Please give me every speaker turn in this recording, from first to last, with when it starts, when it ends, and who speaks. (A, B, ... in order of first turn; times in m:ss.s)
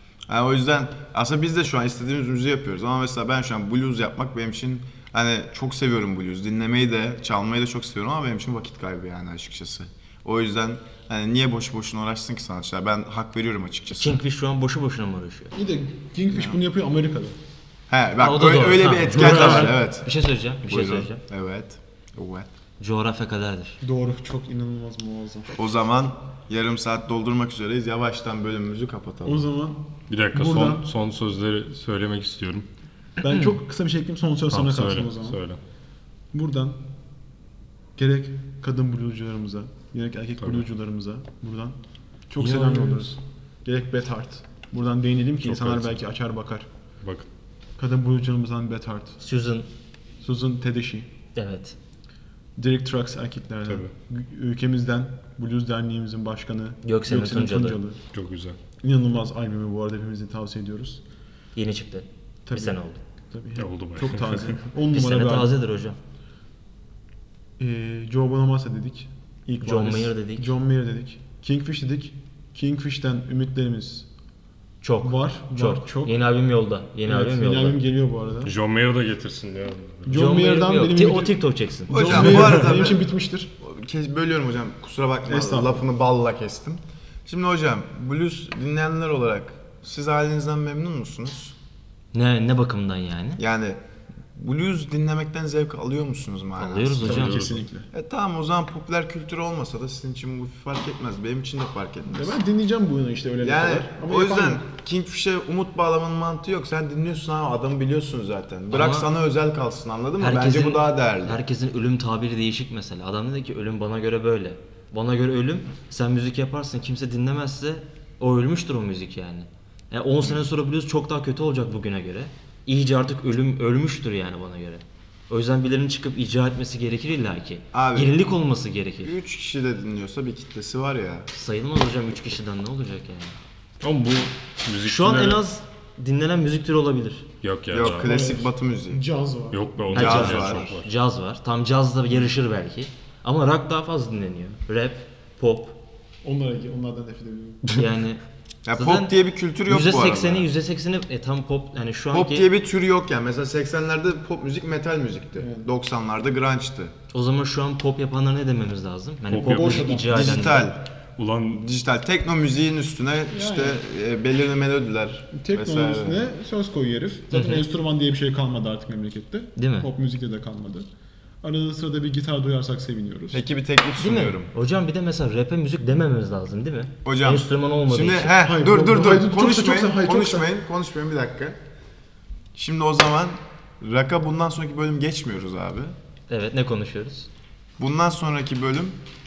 0:00.3-0:14.2 A
0:14.0-0:15.6 B
0:15.5-0:17.4 C
0:16.3-0:16.6 A
0:17.9-0:20.1 A
0:18.2-0:21.2 B
0:20.6-0:22.5 A
0:22.8-0:23.8 B
0:23.8-0:25.6 C
0:25.6-0:29.4 A
0:29.2-0:30.9 C
0:30.1-0:32.6 D
0:33.2-0:35.4 C
0:34.5-0:35.6 D
0:36.3-0:36.8 C
0:38.0-0:41.8 C
0:42.3-0:46.7 C
0:42.4-0:43.1 D
0:45.4-0:45.9 D
0:47.8-0:49.2 C
0:49.2-0:49.7 B
0:50.2-0:51.1 C
0:51.4-0:51.8 B
0:52.6-0:58.0 C
0:53.7-0:53.9 D
0:56.8-0:57.8 B
0:58.1-0:58.6 D
0:58.8-1:01.0 C
1:01.6-1:03.0 B
1:02.4-1:02.8 C
1:03.3-1:05.6 C
1:03.6-1:04.6 D
1:04.9-1:06.0 B
1:07.6-1:14.1 C
1:09.6-1:10.5 B
1:14.8-1:17.8 B
1:15.0-1:16.2 C
1:17.0-1:18.6 C
1:18.4-1:20.4 D
1:20.0-1:23.5 C
1:20.1-1:22.3 B
1:21.9-1:23.0 A
1:23.6-1:31.5 A
1:25.3-1:25.9 C
1:32.1-1:33.4 B
1:33.4-1:33.8 A
1:34.3-1:37.4 A
1:36.6-1:37.4 B
1:37.0-1:37.9 C
1:37.0-1:37.6 D
1:37.9-1:42.4 A
1:42.1-1:44.6 C
1:43.4-1:51.4 A
1:48.7-1:49.1 B
1:50.2-2:09.2 B
2:07.7-2:08.2 A
2:09.0-2:11.3 A
2:11.3-2:13.4 B
2:13.8-2:15.4 D
2:14.8-2:17.3 B
2:17.4-2:18.1 D
2:17.7-2:19.0 A
2:18.0-2:20.1 C
2:19.5-2:20.9 D
2:19.9-2:20.8 A
2:19.9-2:25.8 B
2:26.2-2:27.7 C
2:27.7-2:28.2 B
2:28.6-2:30.5 A
2:28.7-2:29.1 B
2:29.6-2:32.5 B
2:32.1-2:36.9 A
2:35.4-2:35.7 C
2:37.1-2:40.7 B
2:39.3-2:39.9 D
2:39.4-2:40.6 C
2:40.1-2:40.9 A
2:41.2-2:41.6 D
2:41.5-2:46.3 A
2:43.3-2:43.8 C
2:45.3-2:50.9 C
2:47.3-2:47.6 B
2:49.6-2:49.9 B
2:51.4-2:53.4 C
2:53.3-2:54.5 A
2:54.0-2:58.5 B
2:57.0-3:01.6 A
2:58.4-3:00.5 C
3:02.6-3:05.9 A
3:06.3-3:07.3 B
3:07.8-3:09.0 A